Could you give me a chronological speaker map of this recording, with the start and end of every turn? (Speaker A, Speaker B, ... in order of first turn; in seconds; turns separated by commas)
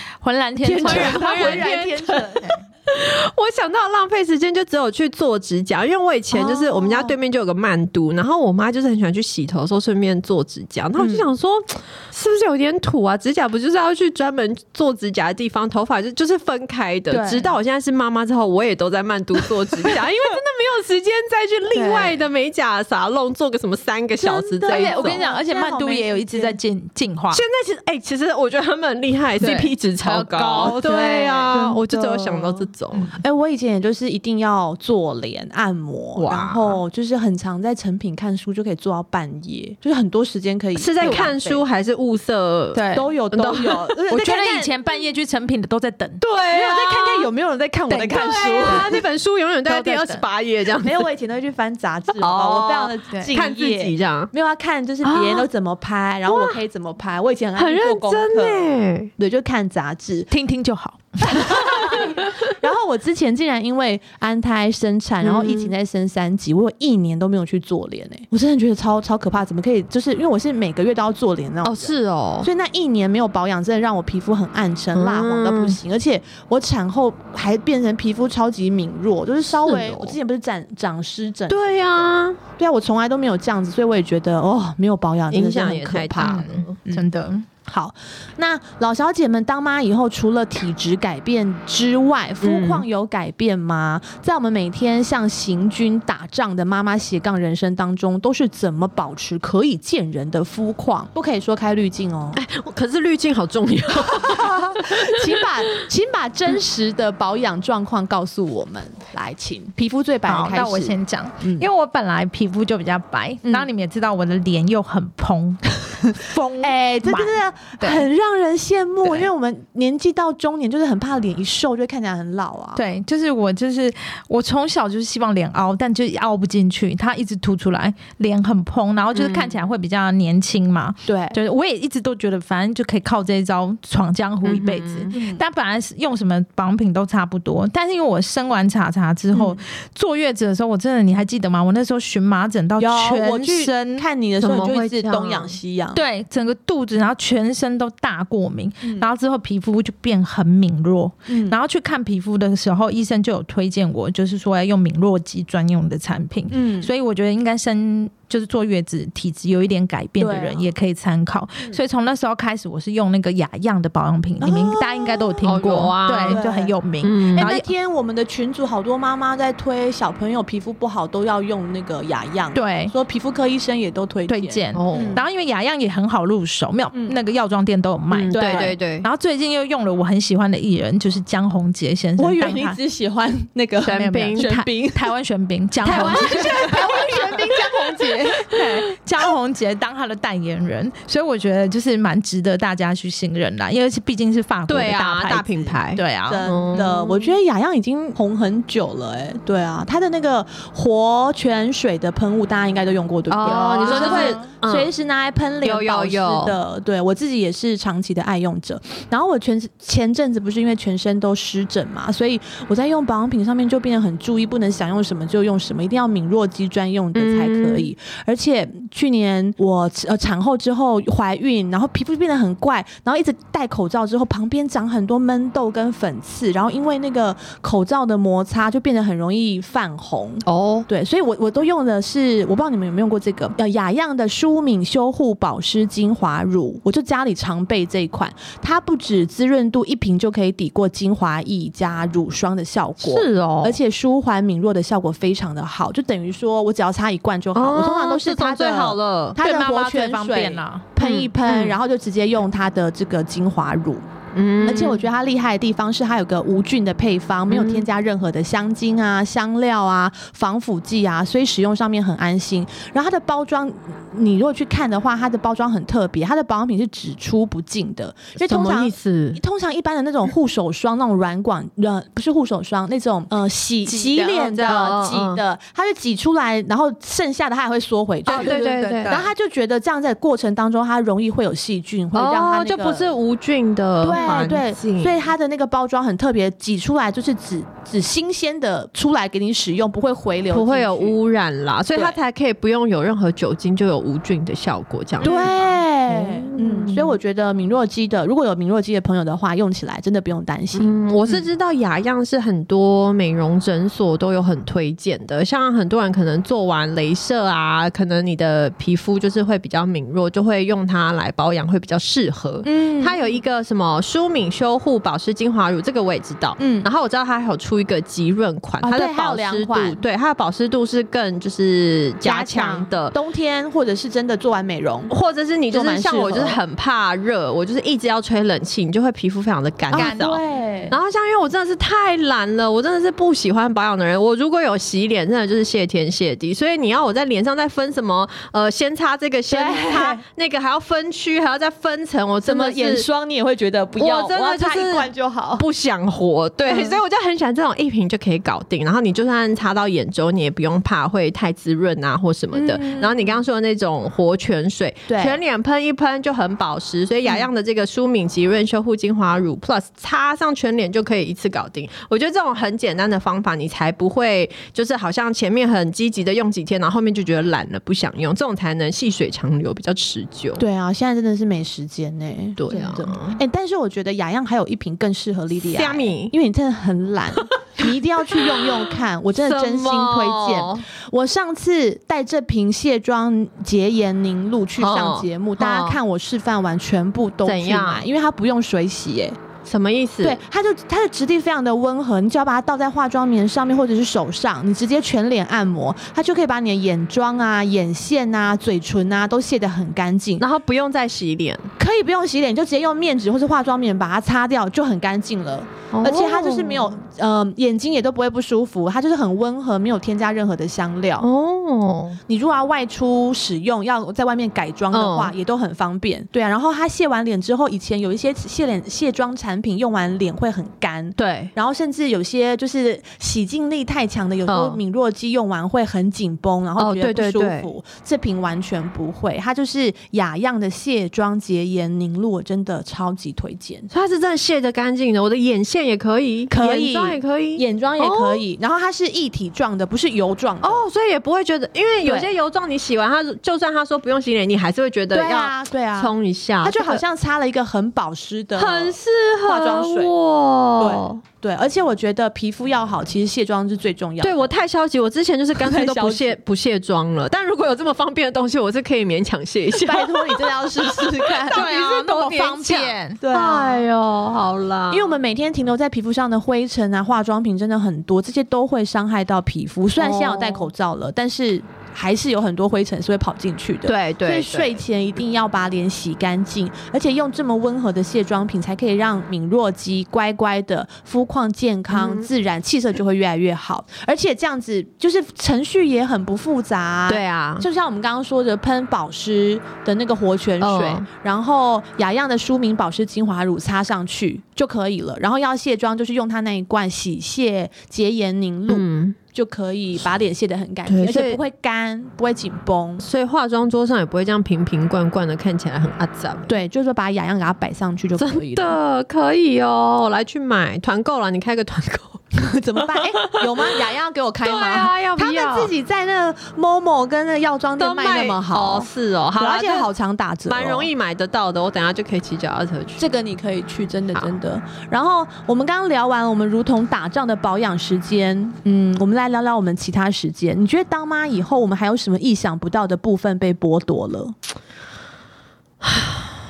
Speaker A: 0.2-1.9, Speaker B: 0.6-2.6, Speaker C: 0.7-25.2, Speaker B: 6.3-7.2, Speaker B: 11.0-11.3, Speaker B: 17.1-17.5, Speaker B: 21.7-22.1, Speaker B: 24.2-26.6, Speaker A: 24.7-27.4, Speaker C: 27.3-33.1, Speaker A: 29.4-31.1, Speaker B: 30.6-41.6, Speaker A: 32.9-33.2, Speaker C: 36.1-36.8, Speaker C: 40.8-44.0, Speaker A: 41.0-41.3, Speaker A: 42.7-43.1, Speaker B: 42.9-44.8, Speaker A: 44.1-46.2, Speaker C: 46.2-47.3, Speaker B: 46.5-49.0, Speaker A: 47.9-49.0, Speaker C: 48.1-51.1, Speaker A: 49.6-50.2, Speaker B: 50.8-60.3, Speaker C: 52.2-54.3, Speaker C: 55.0-55.5, Speaker C: 56.3-56.6, Speaker C: 57.5-59.1, Speaker A: 60.3-62.1, Speaker B: 61.2-81.8, Speaker C: 65.2-65.7, Speaker C: 71.6-72.5, Speaker C: 74.9-75.8, Speaker C: 79.6-80.2, Speaker C: 81.5-82.4, Speaker B: 82.6-87.0, Speaker C: 85.3-86.8, Speaker A: 86.2-87.5, Speaker B: 87.7-102.4, Speaker C: 92.4-92.8, Speaker C: 102.3-105.4, Speaker B: 104.3-111.7, Speaker A: 110.3-118.0, Speaker B: 116.6-122.8, Speaker A: 122.7-144.1, Speaker C: 129.1-129.6, Speaker B: 131.1-131.4, Speaker C: 134.4-135.1, Speaker B: 135.1-135.4, Speaker B: 139.3-139.6, Speaker B: 142.8-146.0, Speaker C: 144.4-145.6, Speaker A: 145.9-167.7, Speaker B: 148.8-149.1, Speaker B: 151.3-151.6, Speaker B: 156.5-156.9, Speaker B: 160.2-160.7, Speaker B: 164.4-165.5, Speaker C: 165.4-166.4, Speaker B: 166.3-166.8, Speaker C: 167.0-167.5, Speaker B: 167.3-175.2, Speaker A: 172.5-172.9, Speaker A: 174.3-182.8, Speaker C: 174.7-175.2, Speaker C: 178.1-179.1, Speaker B: 178.3-178.8, Speaker B: 182.2-185.1, Speaker C: 183.8-184.5, Speaker A: 183.9-187.4, Speaker B: 185.8-188.9, Speaker C: 185.8-188.2, Speaker A: 188.4-196.4, Speaker C: 194.7-197.3, Speaker B: 196.2-254.0, Speaker C: 203.3-204.9, Speaker A: 203.4-204.5, Speaker C: 205.6-206.6, Speaker C: 217.1-217.9, Speaker C: 230.4-230.9, Speaker C: 243.0-243.8, Speaker C: 247.5-249.4, Speaker A: 249.4-250.9, Speaker C: 251.0-251.8, Speaker C: 254.3-255.0, Speaker B: 254.6-283.1, Speaker C: 257.5-257.8, Speaker C: 268.4-269.4, Speaker A: 273.9-274.9, Speaker C: 274.6-275.4, Speaker C: 278.2-279.2, Speaker A: 278.2-279.3, Speaker C: 282.1-285.2, Speaker B: 284.0-291.2, Speaker A: 284.1-284.5, Speaker C: 290.5-297.2, Speaker B: 291.9-292.2, Speaker B: 295.2-301.5, Speaker C: 300.8-323.1, Speaker B: 312.6-313.4, Speaker B: 316.6-316.9, Speaker B: 318.8-320.0, Speaker B: 322.2-325.1, Speaker C: 325.1-343.1, Speaker B: 325.7-326.6, Speaker B: 329.9-330.9, Speaker A: 329.9-330.4, Speaker B: 339.5-340.2, Speaker B: 342.4-345.6, Speaker C: 344.0-370.6, Speaker B: 346.6-347.0, Speaker B: 352.5-353.4, Speaker B: 355.1-355.4, Speaker B: 370.6-389.4, Speaker C: 372.6-373.4, Speaker C: 375.6-376.3, Speaker C: 379.4-380.8, Speaker C: 384.8-386.0, Speaker C: 387.4-388.1, Speaker C: 389.6-390.4, Speaker B: 390.2-400.4, Speaker C: 400.4-401.7, Speaker B: 401.8-411.3, Speaker C: 405.9-406.9, Speaker C: 411.2-412.2, Speaker B: 412.3-433.9, Speaker C: 414.9-415.3, Speaker C: 421.2-421.5, Speaker C: 424.5-424.8, Speaker C: 426.8-427.7, Speaker C: 433.9-438.4, Speaker B: 436.5-440.8, Speaker C: 440.6-447.0, Speaker B: 442.0-442.3, Speaker B: 445.1-450.1, Speaker C: 448.6-451.2, Speaker B: 450.8-454.5, Speaker C: 454.2-465.2, Speaker B: 455.6-456.4, Speaker B: 459.8-462.2, Speaker A: 461.5-463.2, Speaker B: 463.2-463.8, Speaker B: 464.9-503.0, Speaker C: 470.0-470.7, Speaker C: 473.8-474.8, Speaker C: 481.9-482.3, Speaker C: 487.1-487.6, Speaker C: 490.6-491.1, Speaker C: 498.7-499.2, Speaker C: 500.9-501.4, Speaker C: 503.0-506.5, Speaker B: 506.5-508.8, Speaker C: 508.2-512.2, Speaker B: 512.3-520.9, Speaker C: 512.8-513.7, Speaker C: 514.4-515.7, Speaker C: 517.8-519.9, Speaker C: 520.5-523.0, Speaker B: 523.0-534.3, Speaker C: 535.8-536.3